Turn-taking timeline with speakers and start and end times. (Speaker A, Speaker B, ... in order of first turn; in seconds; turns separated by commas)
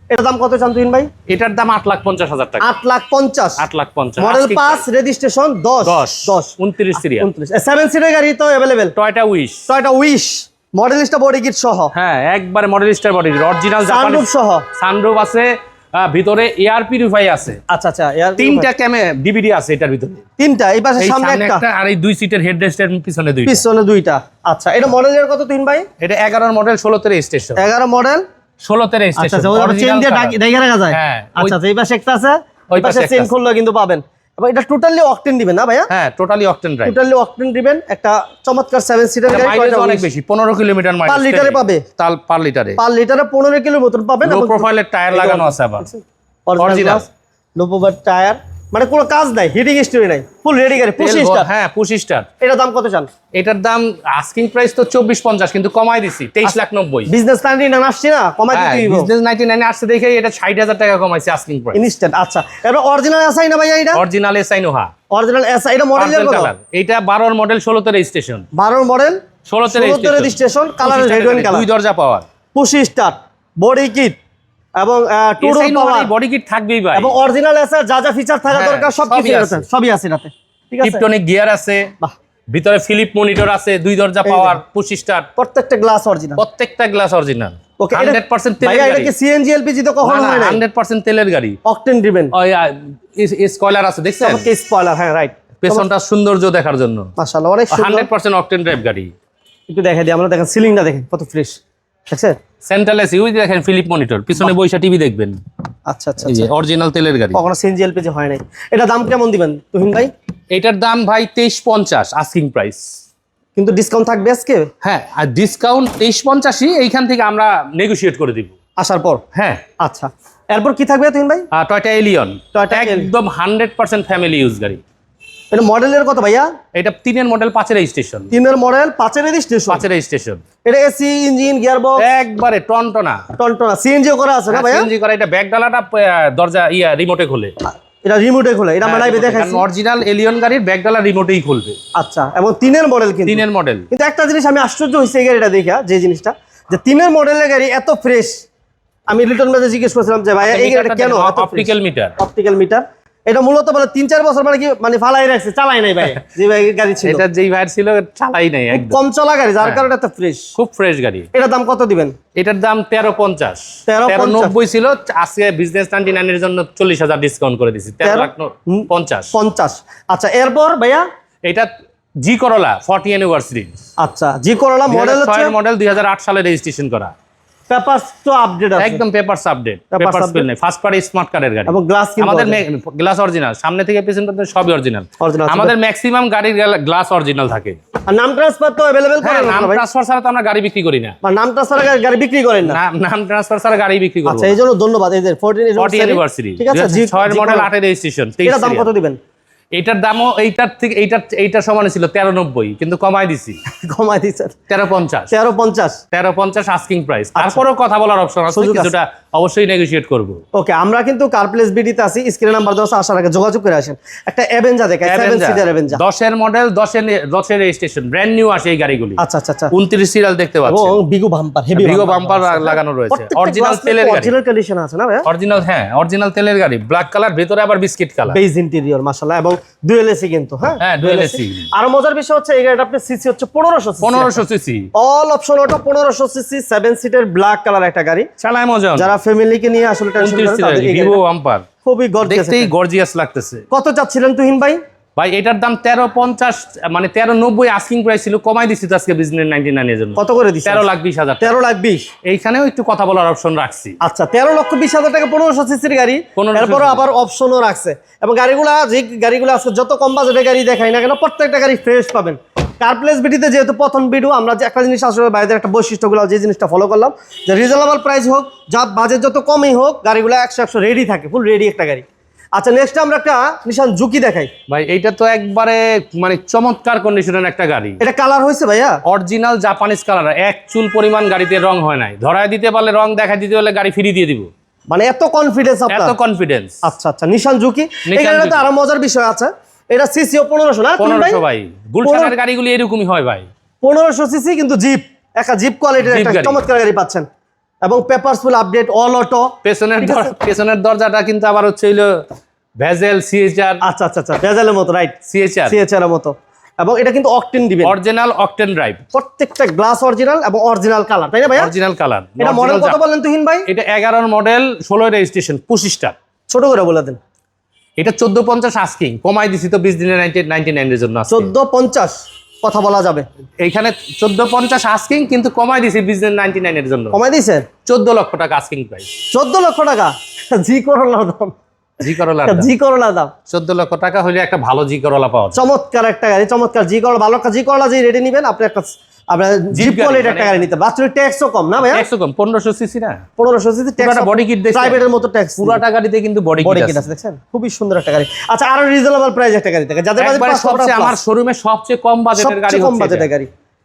Speaker A: 0.1-1.1, Speaker B: 1.3-2.7, Speaker A: 2.6-3.6, Speaker B: 3.6-4.8, Speaker A: 4.2-8.9, Speaker B: 5.8-7.3, Speaker B: 8.9-9.7, Speaker A: 9.7-11.9, Speaker B: 11.9-17.6, Speaker A: 13.8-14.6, Speaker A: 17.7-18.7, Speaker B: 18.4-20.2, Speaker A: 20.4-21.6, Speaker B: 21.0-23.6, Speaker A: 23.4-25.9, Speaker B: 26.0-27.6, Speaker A: 27.6-28.2, Speaker B: 28.6-30.4, Speaker A: 29.2-35.9, Speaker B: 30.9-31.6, Speaker B: 32.7-33.3, Speaker B: 35.9-37.0, Speaker A: 36.8-40.1, Speaker B: 39.3-42.8, Speaker A: 41.1-41.8, Speaker A: 42.8-51.5, Speaker B: 44.2-45.9, Speaker B: 46.6-47.0, Speaker B: 51.0-52.3, Speaker A: 52.4-53.1, Speaker B: 53.4-57.1, Speaker A: 57.1-59.1, Speaker B: 58.5-61.8, Speaker A: 61.7-64.0, Speaker B: 63.9-64.9, Speaker A: 65.1-66.5, Speaker B: 66.0-68.5, Speaker A: 68.5-71.7, Speaker B: 69.5-72.2, Speaker A: 72.5-74.2, Speaker A: 74.8-76.1, Speaker B: 75.4-77.2, Speaker A: 76.9-81.0, Speaker B: 78.5-79.7, Speaker B: 80.8-81.9, Speaker B: 82.5-85.3, Speaker A: 84.2-84.6, Speaker A: 85.4-86.4, Speaker B: 86.4-89.1, Speaker A: 87.8-90.6, Speaker B: 90.0-91.6, Speaker A: 91.6-92.3, Speaker B: 92.3-94.5, Speaker A: 94.2-95.9, Speaker B: 95.6-97.1, Speaker A: 97.2-98.1, Speaker B: 97.7-99.1, Speaker A: 99.7-102.4, Speaker B: 102.6-105.4, Speaker A: 105.9-106.5, Speaker B: 106.2-107.4, Speaker A: 107.3-110.1, Speaker B: 110.5-112.8, Speaker A: 113.5-114.7, Speaker B: 114.8-118.5, Speaker A: 118.8-119.2, Speaker B: 119.3-119.6, Speaker A: 119.8-121.5, Speaker B: 121.5-124.8, Speaker A: 122.5-123.1, Speaker A: 125.5-126.5, Speaker B: 126.7-128.3, Speaker A: 128.3-129.8, Speaker B: 129.7-130.4, Speaker A: 130.6-132.0, Speaker B: 132.0-133.2, Speaker A: 133.3-134.9, Speaker B: 134.5-137.5, Speaker A: 138.0-139.6, Speaker B: 138.8-141.8, Speaker A: 141.9-148.4, Speaker B: 143.2-143.9, Speaker A: 149.1-157.2, Speaker B: 150.4-152.1, Speaker B: 157.0-159.0, Speaker A: 158.7-160.5, Speaker B: 159.6-159.9, Speaker B: 160.6-161.3, Speaker A: 161.3-162.1, Speaker B: 162.3-169.3, Speaker A: 163.9-164.5, Speaker A: 168.0-171.0, Speaker B: 172.2-173.8, Speaker A: 174.0-175.5, Speaker B: 174.9-177.1, Speaker A: 177.7-179.0, Speaker B: 178.8-187.8, Speaker A: 179.9-180.4, Speaker A: 181.7-182.6, Speaker A: 185.2-185.7, Speaker A: 188.1-189.8, Speaker B: 189.2-191.2, Speaker A: 191.2-192.8, Speaker B: 192.6-194.6, Speaker A: 194.2-197.7, Speaker B: 195.8-198.9, Speaker A: 198.4-199.2, Speaker B: 199.7-203.6, Speaker A: 203.7-204.5, Speaker B: 204.7-205.3, Speaker A: 205.3-206.0, Speaker B: 206.1-210.4, Speaker A: 207.3-207.6, Speaker A: 208.5-208.9, Speaker A: 210.5-216.0, Speaker B: 215.0-221.0, Speaker A: 219.2-219.7, Speaker A: 220.7-225.3, Speaker B: 221.7-224.3, Speaker B: 225.2-228.4, Speaker A: 228.3-234.4, Speaker B: 230.8-231.7, Speaker B: 234.0-234.9, Speaker A: 234.9-238.3, Speaker B: 238.4-239.1, Speaker A: 238.9-241.2, Speaker B: 240.2-241.7, Speaker A: 241.8-242.7, Speaker B: 242.2-243.7, Speaker A: 243.7-244.8, Speaker B: 245.2-251.6, Speaker A: 250.2-250.9, Speaker A: 251.4-252.0, Speaker B: 252.2-254.0, Speaker A: 254.0-272.0, Speaker B: 256.4-257.1, Speaker A: 272.6-274.5, Speaker B: 274.7-278.0, Speaker A: 278.0-279.0, Speaker B: 279.1-284.5, Speaker A: 284.9-286.1, Speaker B: 285.9-286.8, Speaker A: 286.8-291.4, Speaker B: 288.1-288.7, Speaker B: 291.0-293.5, Speaker A: 292.0-292.3, Speaker A: 293.8-297.3, Speaker B: 296.0-296.6, Speaker A: 297.8-300.4, Speaker B: 299.6-302.2, Speaker B: 302.8-303.8, Speaker A: 303.8-307.9, Speaker B: 305.3-305.8, Speaker B: 307.8-309.0, Speaker A: 309.1-311.7, Speaker B: 311.5-313.0, Speaker A: 312.4-313.6, Speaker B: 313.7-316.1, Speaker A: 316.5-317.2, Speaker B: 318.0-321.5, Speaker A: 321.3-323.2, Speaker B: 323.6-327.2, Speaker A: 327.1-327.6, Speaker B: 327.8-329.1, Speaker A: 329.3-331.5, Speaker B: 332.0-332.7, Speaker A: 332.4-333.3, Speaker B: 333.5-335.6, Speaker A: 335.5-342.1, Speaker B: 339.7-340.6, Speaker B: 341.8-343.2, Speaker A: 343.4-345.8, Speaker B: 344.0-345.0, Speaker B: 345.6-347.0, Speaker A: 346.6-351.2, Speaker B: 350.2-353.3, Speaker A: 352.4-353.5